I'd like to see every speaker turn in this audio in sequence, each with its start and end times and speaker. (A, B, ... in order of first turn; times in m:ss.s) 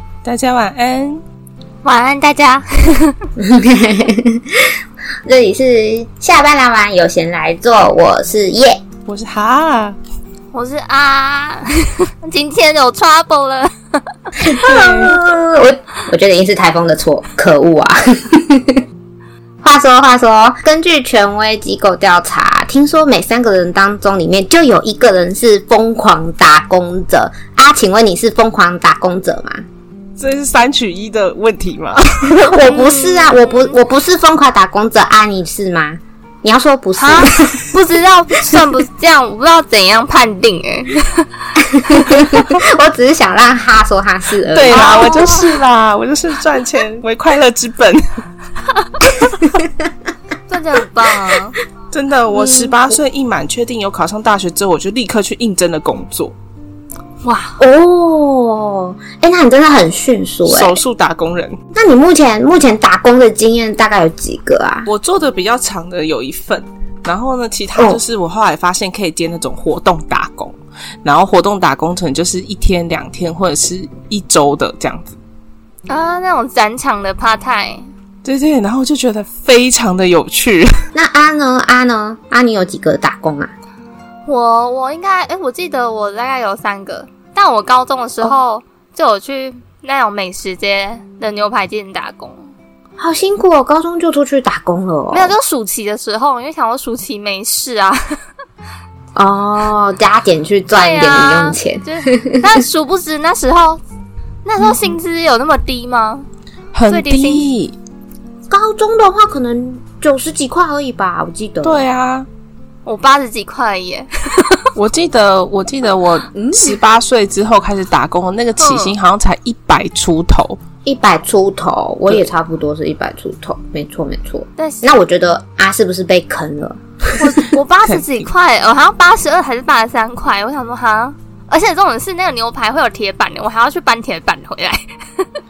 0:00.2-0:01.2 A
0:01.8-0:03.2 B
0:03.4-0:08.8 C
0:09.1-0:10.0 A
0:10.5-0:14.0 B
0:14.4-0:18.8 C
0:14.5-0:15.2 A
0:19.6-0:29.6 C
0:30.2-0:32.5 A
0:32.3-0:37.7 C
0:32.6-0:33.8 B
0:37.0-0:41.3 B
0:41.6-0:45.3 C
0:44.5-0:48.0 A
0:44.7-0:45.5 B
0:49.0-0:49.5 A
0:49.5-0:49.9 C
0:50.5-0:51.6 B
0:51.9-0:56.3 A
0:52.3-0:53.0 C
0:57.2-0:57.6 B
0:57.6-1:00.8 C
1:00.4-1:01.6 A
1:01.7-1:04.9 C
1:04.8-1:15.2 A
1:07.7-1:08.0 C
1:15.9-1:17.9 B
1:18.2-1:20.7 A
1:20.9-1:23.5 C
1:24.2-1:32.4 B
1:33.0-1:35.3 C
1:35.1-1:38.2 B
1:39.1-1:42.6 C
1:40.7-1:43.8 B
1:44.4-1:46.2 B
1:46.7-1:47.8 A
1:46.9-1:47.5 B
1:48.5-1:51.8 C
1:51.6-1:52.3 A
1:52.8-1:54.7 B
1:54.7-2:00.6 A
1:56.3-1:56.8 C
1:58.6-1:58.9 B
2:00.8-2:07.4 C
2:04.6-2:04.9 B
2:07.2-2:15.3 B
2:07.8-2:08.2 A